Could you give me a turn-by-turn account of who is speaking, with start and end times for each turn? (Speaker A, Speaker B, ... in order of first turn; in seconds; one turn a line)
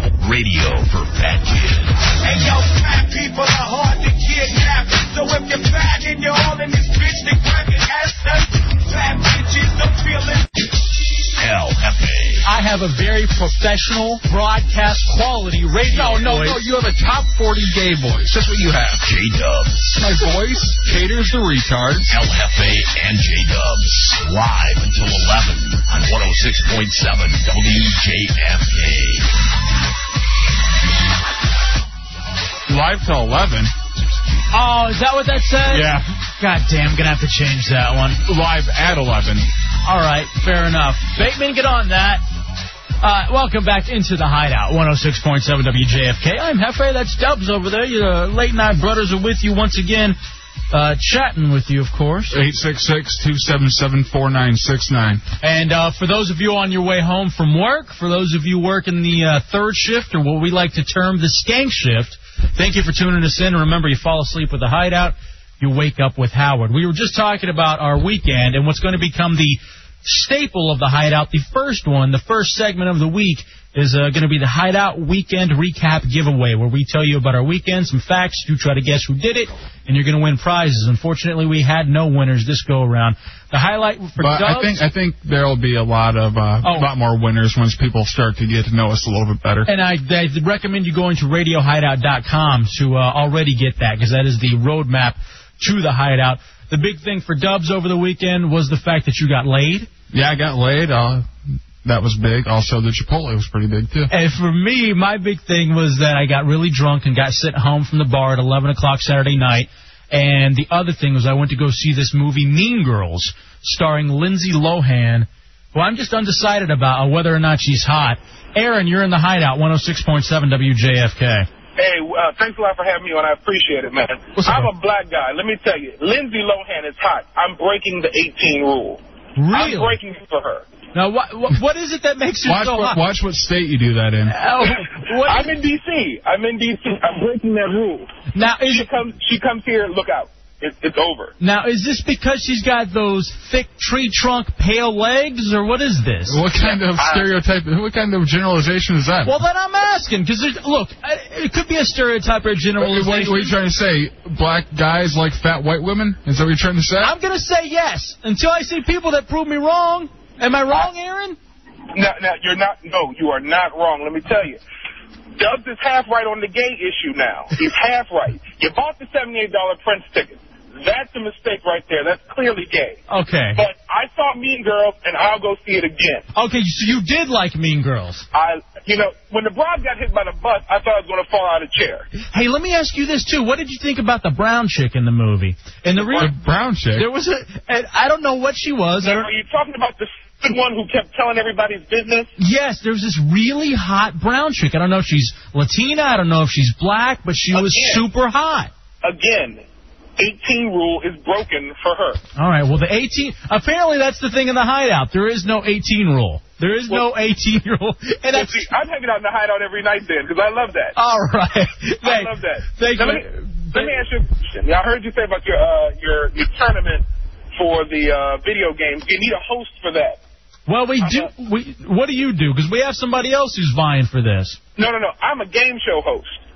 Speaker A: 0.2-2.0
Speaker B: 2.2-10.5
Speaker A: 11.4-12.4
Speaker C: 12.4-16.6
Speaker D: 15.9-19.0
Speaker A: 19.0-20.0
Speaker D: 19.9-22.1
Speaker A: 22.1-29.3
Speaker D: 32.7-33.7
Speaker C: 34.5-38.2
Speaker D: 35.7-36.0
Speaker D: 38.2-39.5
Speaker C: 39.8-42.2
Speaker C: 43.0-50.2
Speaker C: 50.7-52.4
Speaker D: 52.3-55.2
Speaker C: 55.4-84.8
Speaker D: 84.2-89.7
Speaker C: 86.6-86.9
Speaker C: 89.7-99.9
Speaker D: 100.1-104.1
Speaker C: 104.1-121.5
Speaker E: 121.8-129.0
Speaker C: 124.3-124.7
Speaker C: 129.4-130.0
Speaker E: 129.5-130.7
Speaker C: 130.9-133.0
Speaker D: 132.4-134.3
Speaker C: 134.3-135.5
Speaker E: 134.8-138.1
Speaker C: 138.3-138.9
Speaker E: 138.7-141.3
Speaker C: 141.4-146.4
Speaker D: 146.3-149.4
Speaker E: 147.0-147.2
Speaker C: 149.2-153.5
Speaker D: 152.8-157.1
Speaker C: 157.0-161.4
Speaker E: 161.9-164.6
Speaker E: 165.4-173.0
Speaker C: 173.1-173.6
Speaker E: 173.6-176.2
Speaker C: 176.3-178.2
Speaker E: 178.3-182.1
Speaker C: 182.3-186.3
Speaker D: 186.1-187.1
Speaker C: 187.0-189.3
Speaker E: 189.0-192.3
Speaker C: 192.4-198.7
Speaker E: 197.5-198.0
Speaker E: 199.0-199.6
Speaker E: 200.2-202.2
Speaker C: 202.3-208.7
Speaker E: 208.3-210.9
Speaker C: 210.9-213.9
Speaker E: 212.0-217.0
Speaker E: 217.5-220.2
Speaker C: 220.7-224.6
Speaker E: 221.0-221.3
Speaker E: 224.8-226.4